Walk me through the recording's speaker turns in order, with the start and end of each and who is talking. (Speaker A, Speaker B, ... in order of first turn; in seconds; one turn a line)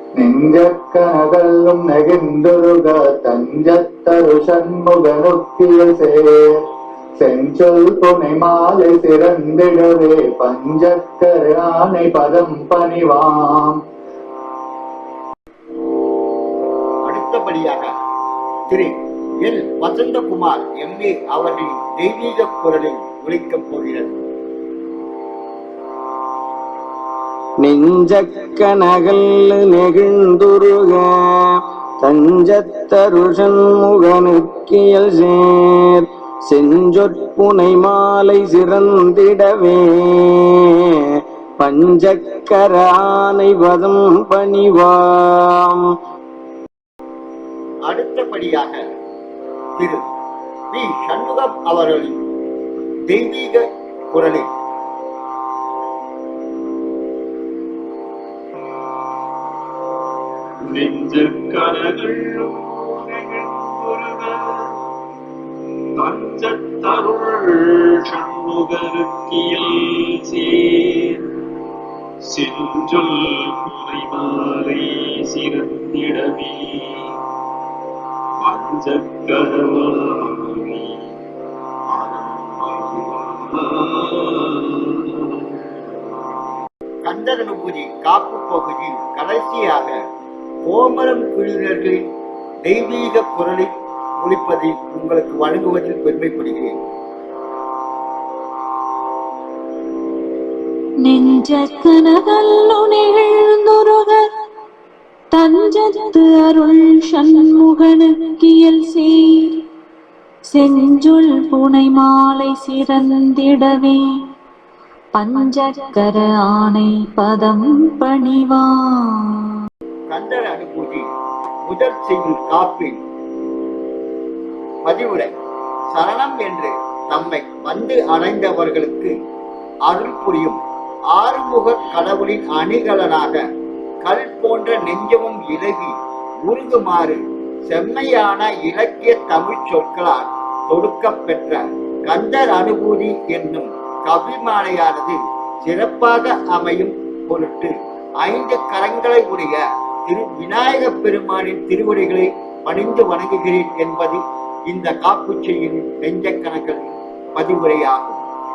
Speaker A: 0.2-6.6
Speaker A: 7.2-13.8
Speaker B: 17.1-17.9
Speaker B: 18.7-24.2
Speaker C: 27.6-31.5
Speaker C: 32.0-40.5
Speaker C: 41.6-45.8
Speaker B: 47.9-48.8
Speaker B: 49.8-50.0
Speaker B: 50.7-52.2
Speaker B: 53.1-54.5
Speaker D: 60.7-64.7
Speaker D: 66.0-71.3
Speaker D: 72.3-77.1
Speaker D: 78.4-81.0
Speaker D: 81.9-85.6
Speaker B: 87.0-90.0
Speaker B: 90.7-92.0
Speaker B: 92.7-96.8
Speaker E: 101.0-104.2
Speaker E: 105.3-109.7
Speaker E: 110.5-114.0
Speaker E: 115.2-119.5
Speaker B: 120.1-121.1
Speaker B: 121.7-123.0
Speaker B: 124.8-125.3
Speaker B: 125.9-129.1
Speaker B: 129.9-130.6
Speaker B: 131.1-133.4
Speaker B: 134.0-135.9
Speaker B: 136.4-158.2